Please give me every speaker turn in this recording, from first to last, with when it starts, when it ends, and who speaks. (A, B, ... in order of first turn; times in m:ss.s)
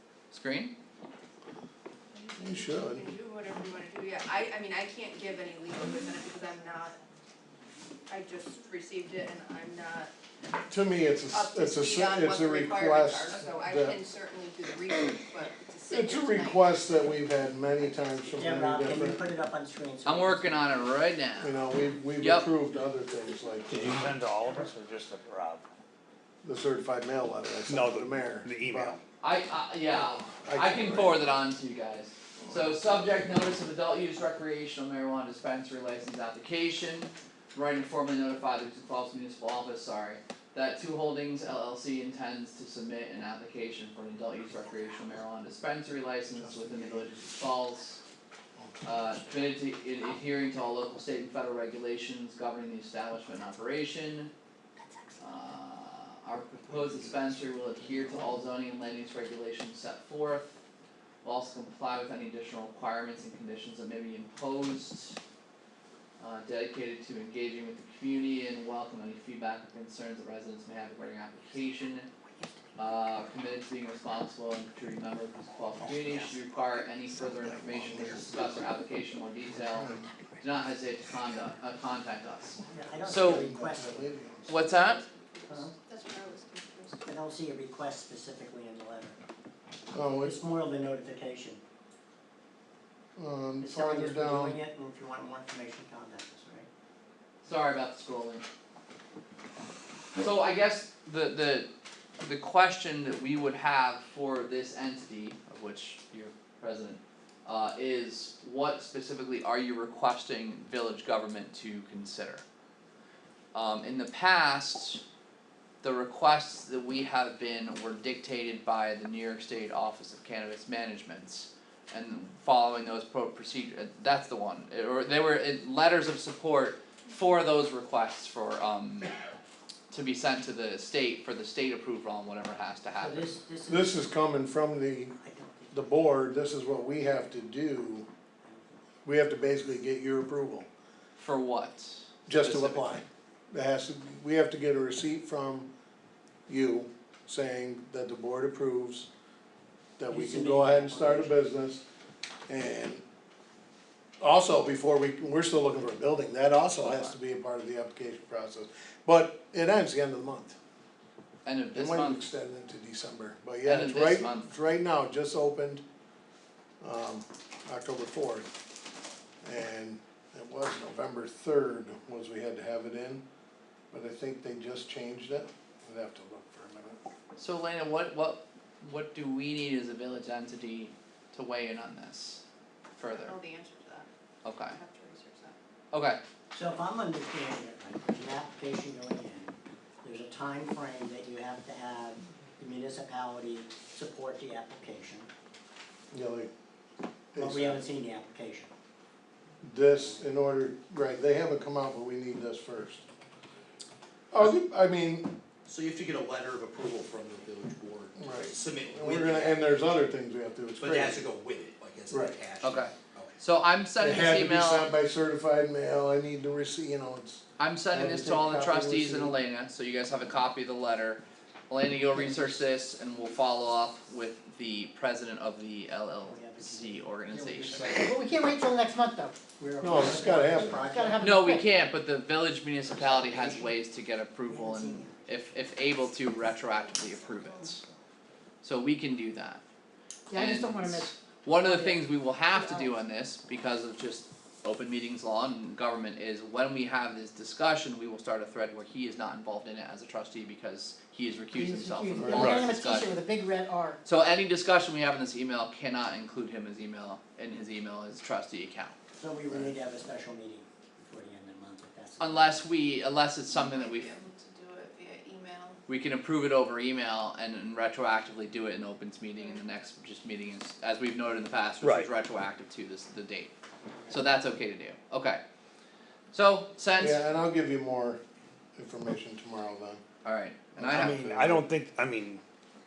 0:00.3-0:00.7 A
0:02.2-0:07.0 B
0:02.4-0:03.1 C
0:08.1-0:10.1 B
0:10.7-0:14.0 C
0:11.3-0:17.0 B
0:15.9-0:19.2 C
0:18.3-0:20.8 D
0:20.0-0:21.6 A
0:21.4-0:24.0 C
0:22.2-0:22.5 A
0:23.7-0:25.6 E
0:26.4-0:29.0 C
0:27.7-0:29.0 E
0:29.2-0:48.0 A
0:29.9-0:31.4 C
0:32.4-0:32.7 C
0:46.4-0:47.3 C
0:48.6-0:49.1 C
0:48.8-0:54.3 A
0:55.2-1:00.6 A
0:56.7-0:58.5 C
1:01.2-1:05.2 A
1:06.2-1:12.1 A
1:12.8-1:23.5 A
1:17.7-1:18.4 C
1:19.7-1:20.1 C
1:22.7-1:24.1 D
1:23.0-1:24.5 C
1:24.5-1:25.0 A
1:24.6-1:27.0 B
1:25.5-1:25.7 D
1:27.0-1:29.2 D
1:29.9-1:30.4 C
1:30.1-1:31.6 D
1:33.2-1:34.6 C
1:33.6-1:36.7 D
1:37.4-1:38.4 A
1:40.2-1:41.7 A
1:42.2-1:52.4 A
1:53.5-1:55.0 A
1:55.8-2:09.1 A
2:09.9-2:13.3 A
2:13.0-2:14.0 D
2:13.7-2:15.2 C
2:15.2-2:15.9 D
2:15.7-2:18.0 C
2:18.4-2:18.7 D
2:19.0-2:20.7 C
2:21.2-2:23.0 A
2:22.3-2:25.7 C
2:26.5-2:29.1 C
2:30.0-2:31.8 C
2:30.1-2:31.4 D
2:32.5-2:33.0 C
2:34.2-2:40.6 C
2:36.8-2:37.1 A
2:41.4-2:42.3 A
2:41.7-2:45.8 C
2:43.6-2:44.5 A
2:46.8-2:48.5 C
2:49.4-2:53.2 C
2:53.9-2:57.0 C
2:57.4-3:02.4 A
3:03.0-3:03.4 A
3:03.0-3:04.1 B
3:04.4-3:04.8 A
3:04.6-3:05.6 B
3:05.9-3:06.2 A
3:06.5-3:15.3 D
3:16.1-3:16.5 C
3:17.3-3:17.8 C
3:17.4-3:18.7 D
3:19.6-3:23.0 C
3:24.3-3:25.3 C
3:25.6-3:29.6 F
3:28.2-3:31.2 C
3:30.8-3:33.4 F
3:32.1-3:32.4 C
3:32.6-3:34.9 A
3:34.0-3:39.3 C
3:37.6-3:48.1 A
3:42.1-3:42.6 D
3:46.2-3:48.4 D
3:48.0-3:49.4 G
3:49.6-3:51.4 D
3:49.8-3:50.8 C
3:50.0-3:51.7 G
3:51.2-3:57.8 A
3:52.9-3:53.7 D
3:54.4-3:55.4 D
3:58.6-3:59.6 A
4:00.3-4:02.1 G
4:00.3-4:13.2 A
4:02.6-4:02.9 G
4:11.5-4:14.0 G
4:12.2-4:12.5 C
4:12.4-4:12.6 E
4:14.0-4:19.0 A
4:19.1-4:22.7 D
4:22.2-4:24.1 A
4:23.5-4:25.8 B
4:25.9-4:33.5 A
4:29.4-4:29.6 B
4:31.8-4:32.1 E
4:34.1-4:35.4 A
4:36.3-4:37.2 A
4:37.0-4:38.2 C
4:38.8-4:40.0 C
4:40.2-4:41.2 A
4:40.7-4:41.6 C
4:40.9-4:42.4 E